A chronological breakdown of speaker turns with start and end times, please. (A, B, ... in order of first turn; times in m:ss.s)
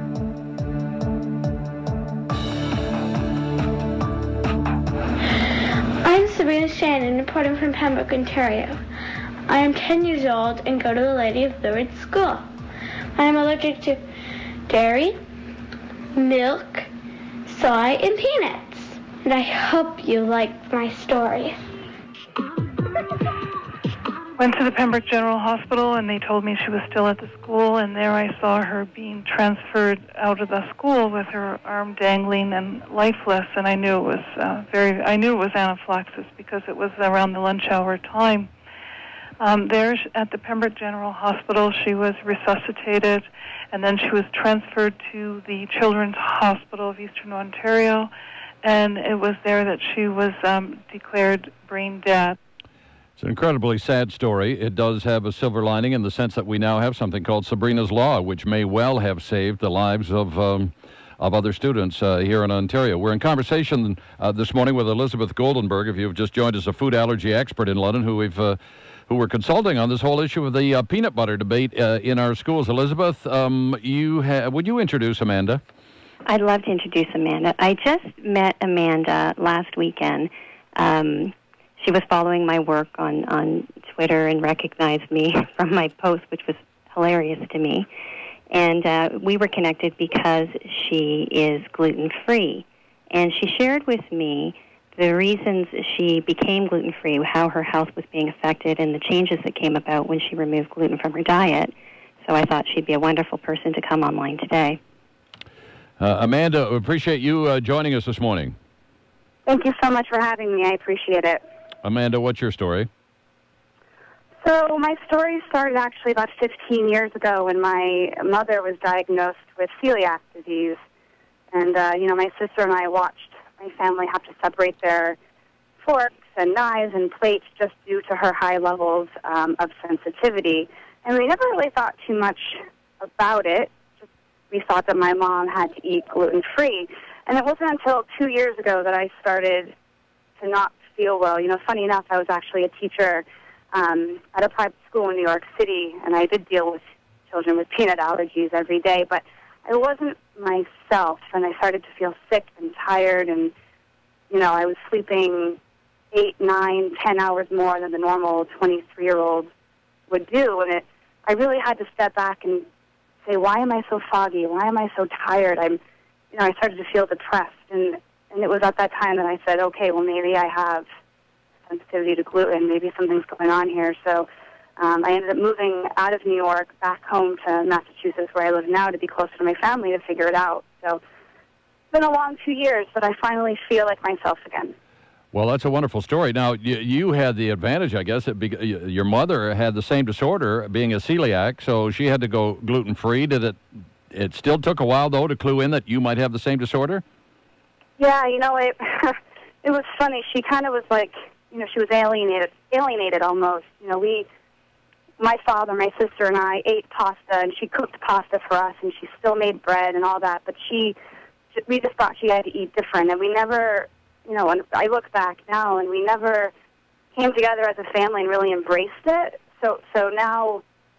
0:06.0-0:08.8 A
0:09.5-0:12.5 A
0:13.1-0:14.0 A
0:14.7-0:15.2 A
0:16.1-0:16.9 A
0:17.4-0:21.6 A
0:24.4-0:38.5 B
0:39.4-0:48.1 B
0:48.6-0:52.4 B
0:53.2-1:15.6 C
1:16.3-1:27.9 D
1:28.5-1:41.7 D
1:42.3-1:44.8 D
1:46.0-1:48.5 C
1:49.5-1:51.4 E
1:51.8-1:52.9 C
1:54.4-2:00.8 E
2:01.5-2:05.2 E
2:05.8-2:13.8 E
2:14.5-2:19.7 E
2:20.4-2:33.5 E
2:34.3-2:35.6 E
2:36.1-2:39.5 E
2:40.1-2:42.6 E
2:43.2-2:45.8 E
2:46.3-2:50.8 E
2:51.7-2:54.2 E
2:54.8-3:01.0 E
3:01.9-3:04.7 E
3:05.3-3:13.6 C
3:14.1-3:17.0 C
3:18.0-3:24.2 E
3:25.2-3:31.0 E
3:31.5-3:36.5 E
3:37.2-3:40.6 E